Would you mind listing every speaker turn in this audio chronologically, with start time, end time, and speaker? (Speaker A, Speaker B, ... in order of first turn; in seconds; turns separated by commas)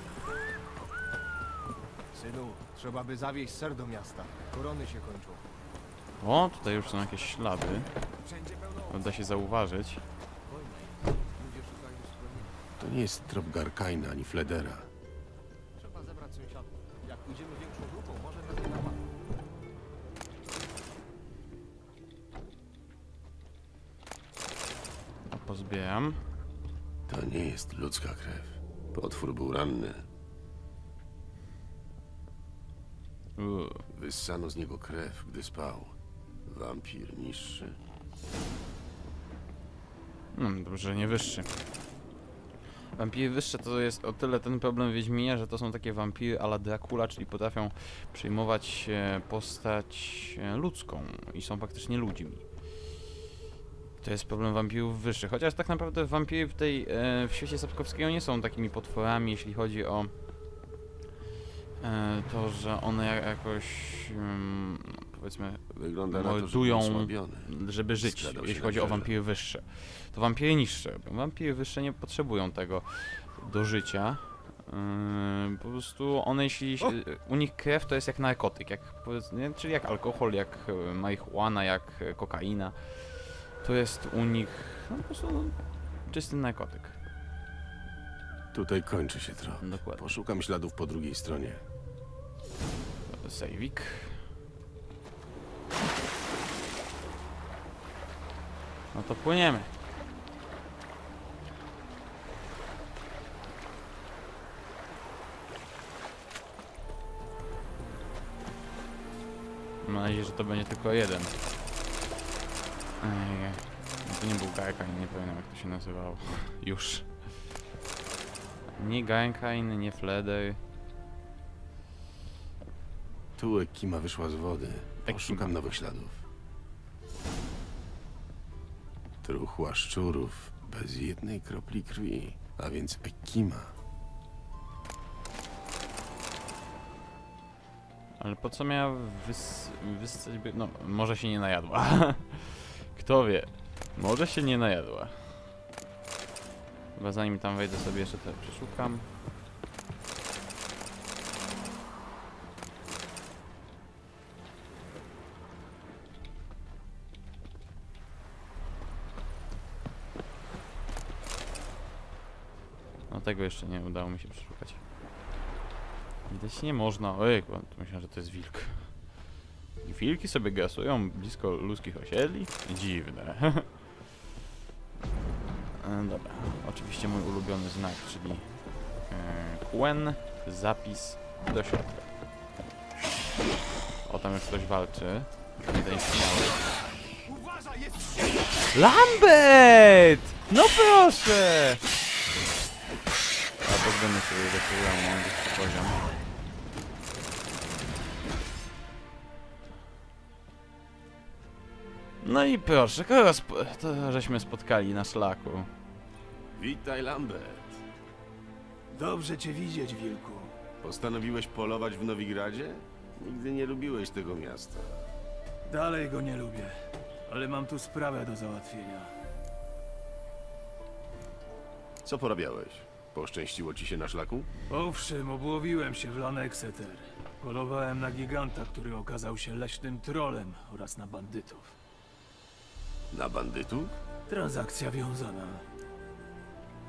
Speaker A: 2.1-5.4, Speaker B: 6.2-7.9, Speaker A: 6.7-7.4, Speaker A: 8.2-9.1, Speaker B: 8.9-10.0, Speaker A: 10.5-12.6, Speaker C: 12.8-14.9, Speaker A: 15.8-19.0, Speaker B: 25.3-26.2, Speaker C: 27.1-30.0, Speaker B: 33.4-33.8, Speaker C: 33.9-35.9, Speaker C: 36.5-37.8, Speaker B: 40.3-41.6, Speaker B: 43.0-52.5, Speaker B: 54.0-60.1, Speaker B: 61.8-87.0, Speaker C: 65.7-69.1, Speaker C: 88.5-91.6, Speaker B: 89.6-90.0, Speaker B: 93.1-94.2, Speaker B: 98.9-99.7, Speaker B: 109.8-111.3, Speaker B: 113.0-117.2, Speaker B: 118.8-120.6, Speaker C: 123.4-126.2, Speaker B: 125.0-125.5, Speaker C: 129.2-133.7, Speaker B: 138.2-145.4, Speaker B: 146.9-149.1, Speaker B: 163.1-164.8, Speaker B: 166.3-169.0, Speaker B: 169.8-173.7, Speaker B: 175.8-178.5, Speaker B: 179.1-182.1, Speaker B: 184.1-186.6, Speaker A: 187.2-188.5, Speaker B: 188.7-191.8, Speaker B: 193.6-196.0, Speaker B: 202.2-205.7, Speaker C: 206.6-207.8, Speaker D: 208.9-210.5, Speaker C: 210.8-215.1, Speaker D: 215.7-216.7, Speaker D: 217.3-219.1, Speaker C: 222.0-224.5, Speaker D: 224.7-231.8, Speaker C: 233.1-234.0, Speaker D: 234.3-235.6